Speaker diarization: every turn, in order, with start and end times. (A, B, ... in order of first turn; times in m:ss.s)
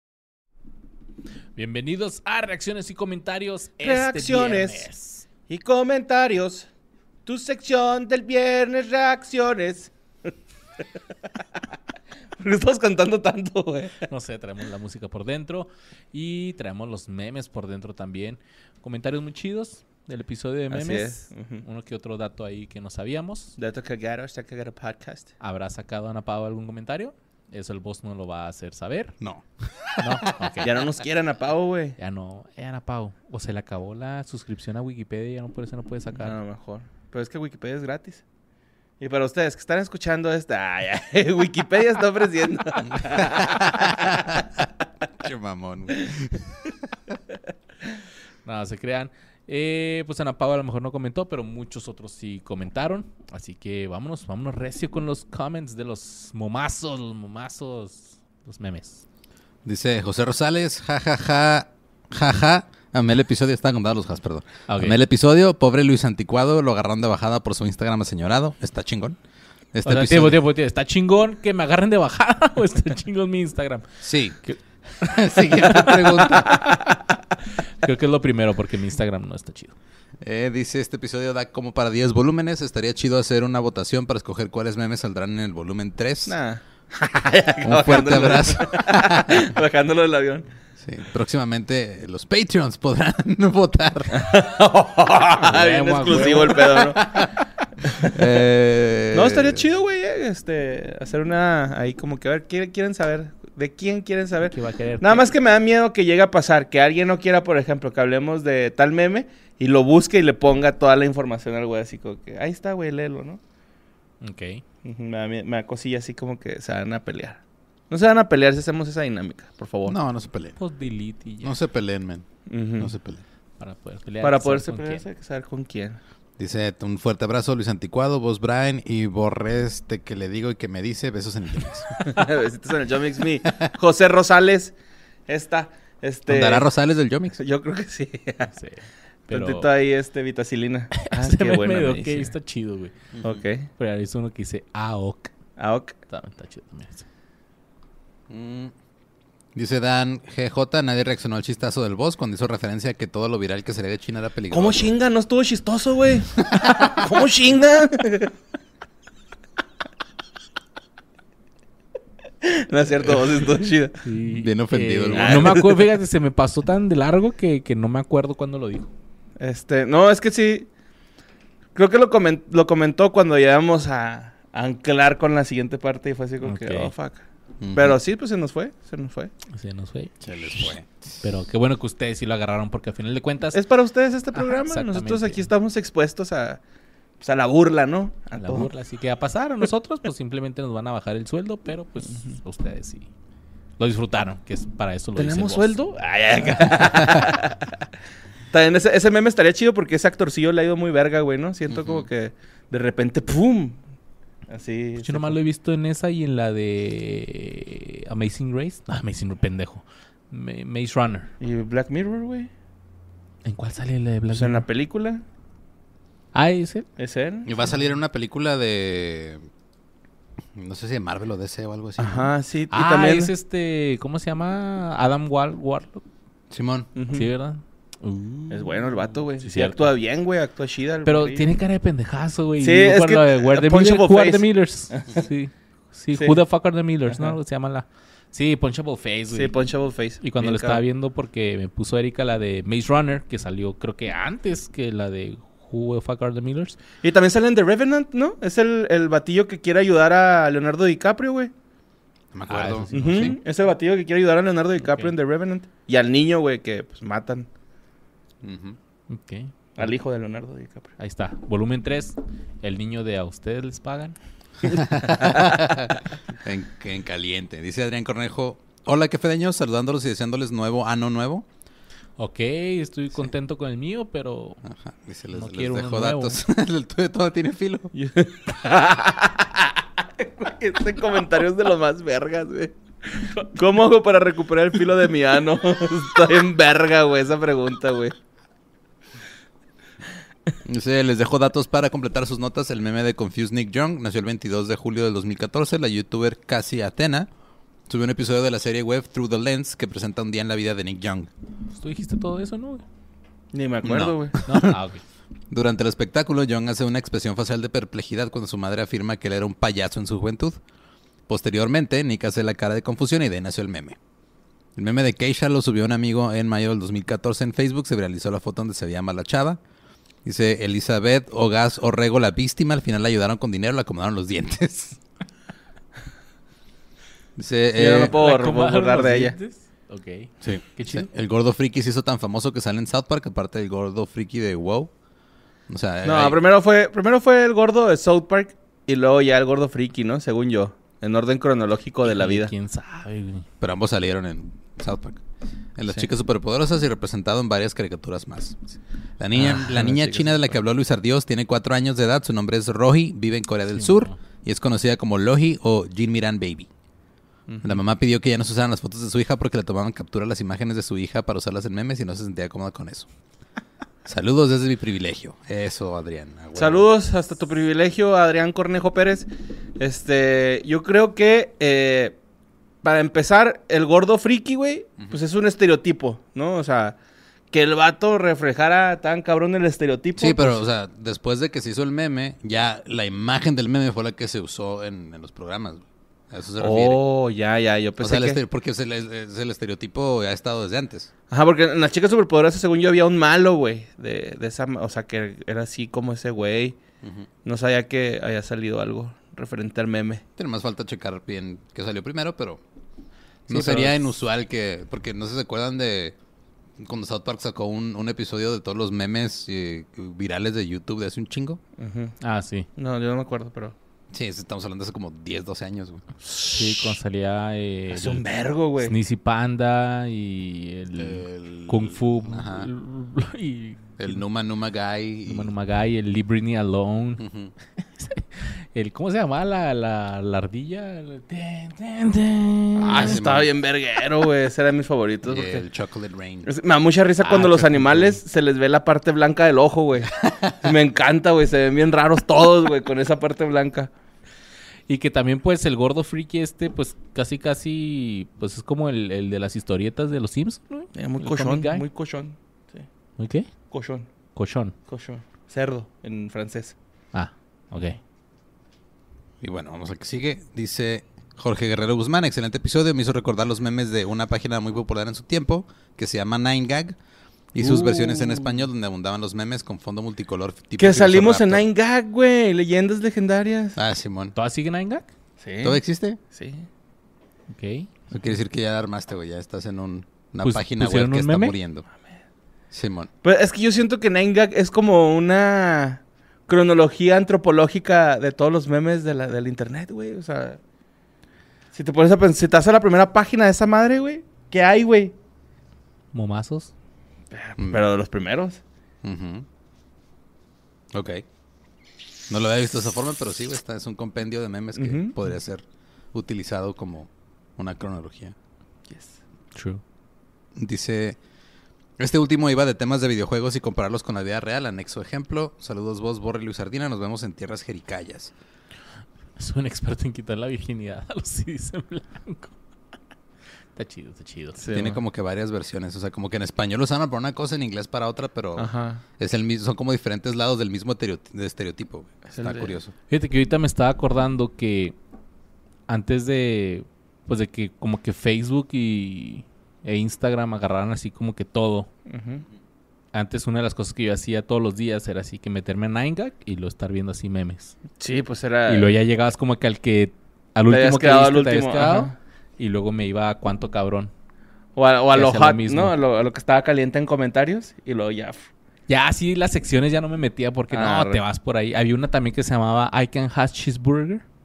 0:01.6-0:05.2 A
0:03.8-0:04.9 B
0:05.5-0:06.7 B
0:07.3-0:09.9 B
0:12.4-0:14.1 B
0:14.0-0:23.6 A
0:20.7-0:21.6 B
0:23.6-0:25.3 B
0:25.4-0:29.2 A
0:29.2-0:30.6 C
0:30.0-0:30.7 A
0:30.6-0:32.0 B
0:32.0-0:36.4 A
0:36.2-0:38.2 B
0:39.0-0:44.2 B
0:42.9-0:44.4 C
0:45.2-0:46.7 C
0:48.4-0:59.0 A
0:59.6-1:09.2 C
1:04.7-1:05.0 A
1:09.7-1:10.4 C
1:09.8-1:13.9 A
1:14.0-1:14.4 C
1:14.4-1:19.8 A
1:15.0-1:16.6 C
1:20.2-1:26.4 C
1:26.3-1:30.5 B
1:27.6-1:29.5 C
1:30.8-1:34.3 C
1:34.1-1:37.3 B
1:35.4-1:36.7 A
1:37.0-1:37.3 C
1:37.9-1:38.2 B
1:38.0-1:39.6 C
1:39.1-1:53.4 B
1:44.5-1:45.3 A
1:54.2-1:54.6 A
1:54.8-2:00.0 B
1:59.9-2:00.6 C
2:00.6-2:01.6 A
2:01.4-2:02.3 C
2:02.5-2:02.9 B
2:02.8-2:03.2 C
2:03.6-2:05.0 A
2:04.2-2:06.0 B
2:06.4-2:11.9 C
2:11.9-2:12.3 A
2:12.0-2:14.7 B
2:15.3-2:16.7 B
2:16.3-2:17.4 C
2:17.4-2:18.5 B
2:18.5-2:19.7 A
2:19.3-2:22.3 B
2:21.0-2:22.9 A
2:23.1-2:23.4 C
2:23.2-2:23.7 B
2:23.8-2:25.3 A
2:25.6-2:26.0 B
2:26.1-2:27.1 A
2:28.3-2:28.7 C
2:29.5-2:35.0 C
2:34.5-2:38.3 B
2:42.4-2:44.0 B
2:44.0-2:48.9 A
2:44.3-2:45.6 C
2:45.1-2:45.9 B
2:49.4-2:50.7 B
2:51.8-2:59.3 B
2:56.4-2:56.9 A
2:57.6-2:58.0 C
2:59.5-3:03.6 A
3:00.2-3:01.2 C
3:03.5-3:06.6 B
3:04.3-3:05.5 A
3:07.2-3:08.7 B
3:08.4-3:13.1 A
3:13.8-3:15.8 A
3:15.2-3:17.6 B
3:18.5-3:23.8 B
3:21.7-3:22.1 C
3:24.5-3:25.4 B
3:25.0-3:31.3 A
3:31.4-3:32.5 B
3:33.4-3:34.6 A
3:34.3-3:35.2 B
3:36.3-3:36.9 A
3:37.0-3:37.5 B
3:37.4-3:39.5 C
3:40.6-3:42.3 C
3:42.0-3:43.3 B
3:42.7-3:46.0 A
3:46.5-3:46.9 C
3:47.0-3:47.3 B
3:47.1-3:49.9 A
3:48.5-3:51.5 B
3:51.0-3:59.5 A
3:52.6-3:55.2 B
3:56.2-3:56.4 B
3:57.1-3:57.4 B
3:59.3-4:00.8 B
4:00.2-4:06.8 A
4:07.0-4:11.5 B
4:12.3-4:13.4 C
4:12.5-4:13.4 A
4:12.9-4:17.5 B
4:14.8-4:15.1 A
4:18.4-4:18.8 C
4:19.1-4:19.9 A
4:19.8-4:20.9 B
4:21.0-4:24.2 A
4:24.6-4:31.5 C
4:32.2-4:34.6 A
4:34.6-4:37.9 C
4:35.3-4:36.4 A
4:37.9-4:48.2 B
4:50.6-4:57.3 C
4:57.9-5:01.3 C
5:01.8-5:02.8 A
5:03.5-5:04.4 B
5:03.8-5:04.8 C
5:04.4-5:05.0 A
5:05.5-5:10.6 C
5:11.3-5:14.0 C
5:14.8-5:19.6 C
5:20.2-5:25.0 C
5:27.4-5:28.1 C
5:27.8-5:29.4 B
5:28.1-5:31.1 A
5:30.4-5:34.9 C
5:35.7-5:36.4 C
5:36.0-5:42.5 B
5:42.0-5:43.5 A
5:43.6-5:45.2 C
5:45.8-5:48.6 C
5:49.2-5:56.7 C
5:49.4-5:50.4 B
5:53.8-5:54.2 A
5:57.5-5:57.8 B
5:57.6-6:03.1 C
6:04.0-6:06.9 C
6:06.6-6:09.3 B
6:09.8-6:12.2 B
6:12.8-6:17.0 B
6:17.5-6:20.6 B
6:20.2-6:27.0 C
6:26.6-6:28.4 B
6:28.0-6:31.1 C
6:31.3-6:36.8 B
6:37.4-6:40.2 B
6:40.4-6:42.6 C
6:43.5-6:46.2 C
6:43.5-6:44.0 A
6:46.8-6:51.6 C
6:51.8-6:52.2 B
6:52.2-6:52.7 A
6:52.8-6:53.8 B
6:54.1-6:56.0 C
6:56.5-6:58.2 A
6:57.9-6:58.9 B
6:58.8-7:04.2 A
7:01.0-7:02.7 C
7:04.0-7:05.5 C
7:05.3-7:07.2 A
7:07.2-7:07.5 C
7:07.8-7:13.2 A
7:12.8-7:15.6 B
7:12.8-7:13.5 C
7:15.2-7:16.5 C
7:16.4-7:23.9 B
7:17.2-7:18.2 A
7:20.2-7:20.6 C
7:24.9-7:31.8 A
7:31.0-7:32.8 B
7:33.2-7:33.5 A
7:33.7-7:34.1 B
7:34.4-7:34.8 A
7:34.9-7:36.8 B
7:37.1-7:38.0 A
7:39.4-7:47.0 C
7:47.5-7:51.6 C
7:47.6-7:48.2 A
7:50.8-7:53.8 B
7:53.8-7:54.3 C
7:54.4-7:55.1 A
7:55.4-7:56.7 B
7:55.6-7:56.2 C
7:57.5-7:57.9 A
7:58.1-8:01.9 C
8:00.4-8:01.6 A
8:02.7-8:03.1 C
8:03.2-8:10.6 B
8:11.7-8:15.1 B
8:16.1-8:16.7 A
8:17.3-8:18.6 B
8:19.0-8:19.5 C
8:20.9-8:21.2 C
8:22.3-8:28.4 C
8:24.8-8:25.2 B
8:28.9-8:29.2 B
8:29.6-8:29.8 A
8:30.6-8:31.2 C
8:32.0-8:38.3 C
8:39.4-8:42.6 A
8:43.8-8:44.7 A
8:44.6-8:45.0 B
8:44.7-8:52.9 C
8:48.6-8:49.0 B
8:52.3-8:52.8 B
8:53.1-8:55.0 A
8:55.9-9:01.9 A
9:02.1-9:02.4 B
9:03.1-9:07.8 A
9:08.0-9:08.9 B
9:08.7-9:14.1 A
9:10.7-9:12.2 B
9:14.8-9:18.5 B
9:15.1-9:16.0 A
9:18.9-9:24.2 A
9:20.7-9:21.2 B